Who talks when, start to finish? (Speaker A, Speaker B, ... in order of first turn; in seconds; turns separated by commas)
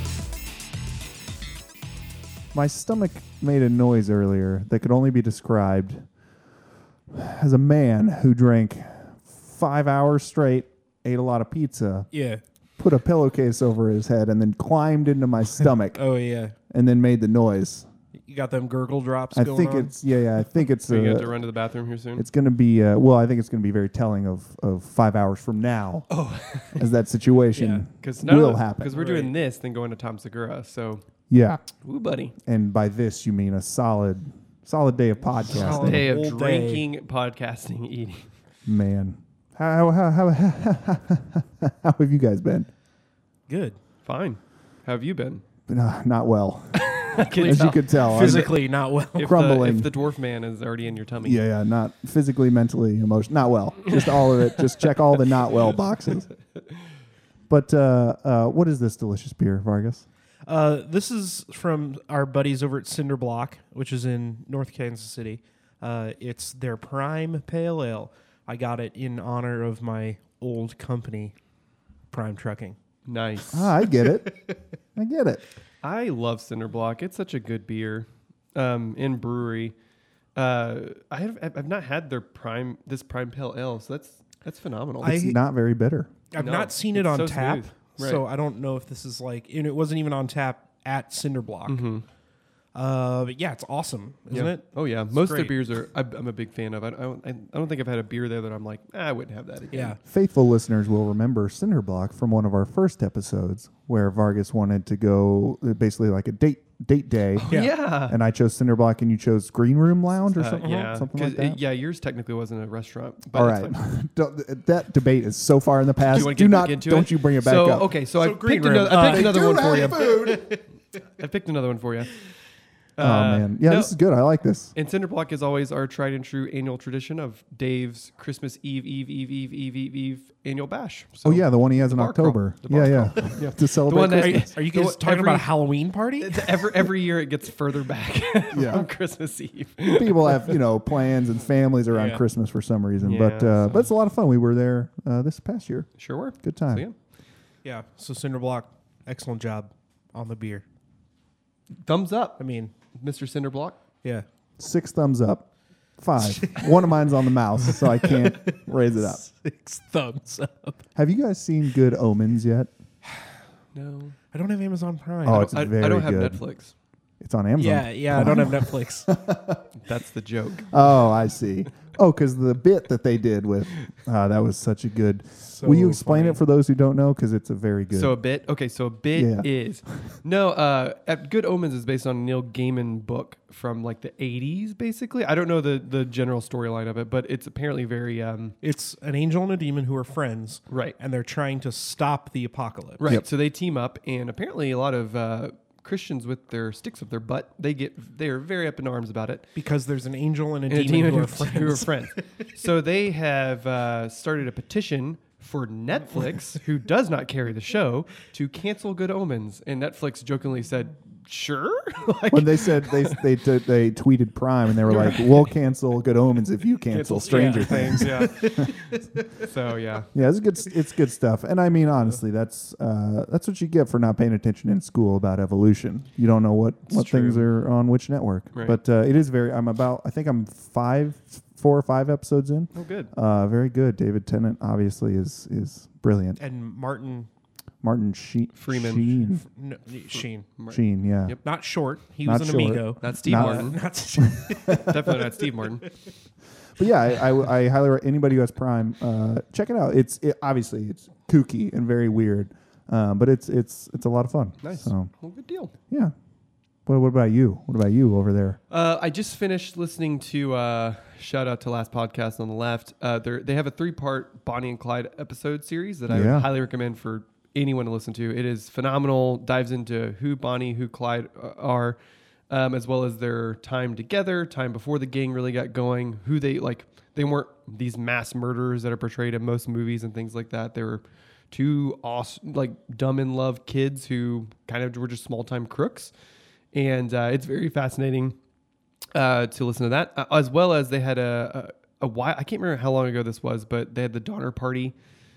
Speaker A: 2.5-6.1, Speaker A: 7.1-12.1, Speaker B: 12.1-12.4, Speaker A: 12.8-16.0, Speaker B: 15.9-16.6, Speaker A: 16.7-17.9, Speaker B: 18.3-19.9, Speaker A: 19.3-21.4, Speaker C: 20.9-22.3, Speaker A: 22.2-26.1, Speaker C: 26.1-26.9, Speaker A: 26.8-29.1, Speaker B: 27.6-27.8, Speaker C: 28.0-31.0, Speaker B: 29.0-29.3, Speaker A: 31.3-31.6, Speaker C: 31.8-32.4, Speaker A: 32.4-36.0, Speaker B: 35.5-36.9, Speaker C: 35.5-38.3, Speaker A: 38.7-42.7, Speaker B: 43.5-43.8, Speaker C: 44.0-45.4, Speaker A: 45.7-48.5, Speaker C: 46.9-48.5, Speaker B: 47.4-49.4, Speaker C: 49.2-51.4, Speaker A: 49.2-49.9, Speaker A: 51.2-56.3, Speaker C: 53.9-54.7, Speaker A: 57.5-60.1, Speaker B: 60.5-71.3, Speaker B: 72.1-72.8, Speaker C: 73.1-73.7, Speaker A: 73.5-74.3, Speaker B: 74.2-74.5, Speaker A: 75.0-75.4, Speaker C: 75.8-79.7, Speaker C: 80.4-85.2, Speaker A: 85.0-86.1, Speaker B: 85.0-85.4, Speaker B: 86.3-91.8, Speaker C: 86.4-88.2, Speaker C: 91.7-92.0, Speaker B: 92.8-95.6, Speaker C: 94.3-100.0, Speaker B: 99.7-100.0, Speaker A: 100.0-107.6, Speaker B: 107.5-107.7, Speaker C: 107.5-108.2, Speaker A: 108.1-111.6, Speaker C: 110.4-113.8, Speaker B: 110.6-111.0, Speaker A: 113.3-117.9, Speaker C: 116.1-120.4, Speaker B: 118.2-120.6, Speaker A: 118.9-120.5, Speaker C: 121.2-122.2, Speaker C: 123.0-123.9, Speaker A: 123.0-124.7, Speaker C: 124.8-135.5, Speaker A: 131.2-134.5, Speaker B: 134.2-136.7, Speaker C: 136.2-140.6, Speaker A: 138.5-138.9, Speaker A: 139.9-145.9, Speaker B: 141.9-142.2, Speaker C: 143.0-143.9, Speaker C: 146.0-146.9, Speaker A: 146.4-146.8, Speaker B: 147.7-150.7, Speaker C: 151.8-152.4, Speaker B: 152.4-152.7, Speaker C: 152.9-153.8, Speaker A: 154.6-155.5, Speaker A: 156.0-159.2, Speaker B: 156.2-156.7, Speaker B: 157.7-160.8, Speaker A: 160.9-162.7, Speaker C: 163.7-164.2, Speaker B: 164.3-165.6, Speaker A: 165.2-166.4, Speaker C: 165.5-166.7, Speaker A: 167.2-169.6, Speaker B: 167.6-169.1, Speaker C: 169.8-171.1, Speaker A: 170.7-178.2, Speaker B: 175.4-176.4, Speaker C: 177.9-188.6, Speaker A: 179.2-179.5, Speaker B: 188.6-193.0, Speaker C: 190.7-191.0, Speaker C: 193.0-199.5, Speaker B: 199.6-202.5, Speaker C: 200.7-213.2, Speaker A: 212.3-218.7, Speaker C: 214.9-215.3, Speaker C: 216.9-218.8, Speaker B: 217.2-219.5, Speaker C: 219.4-220.1, Speaker A: 220.1-236.4, Speaker B: 226.9-227.5, Speaker C: 232.7-233.1, Speaker B: 236.4-237.3, Speaker A: 237.8-239.4, Speaker C: 238.6-239.2, Speaker B: 239.4-240.5, Speaker C: 240.1-241.4, Speaker A: 240.7-241.4, Speaker B: 241.4-245.4, Speaker A: 242.2-243.7, Speaker C: 243.0-243.8, Speaker A: 244.3-245.2, Speaker C: 244.8-245.9, Speaker A: 246.8-255.1, Speaker C: 254.6-255.7, Speaker A: 256.9-258.6, Speaker C: 258.7-272.0, Speaker A: 266.1-266.5, Speaker C: 272.5-286.1, Speaker C: 286.7-288.4, Speaker C: 289.1-294.9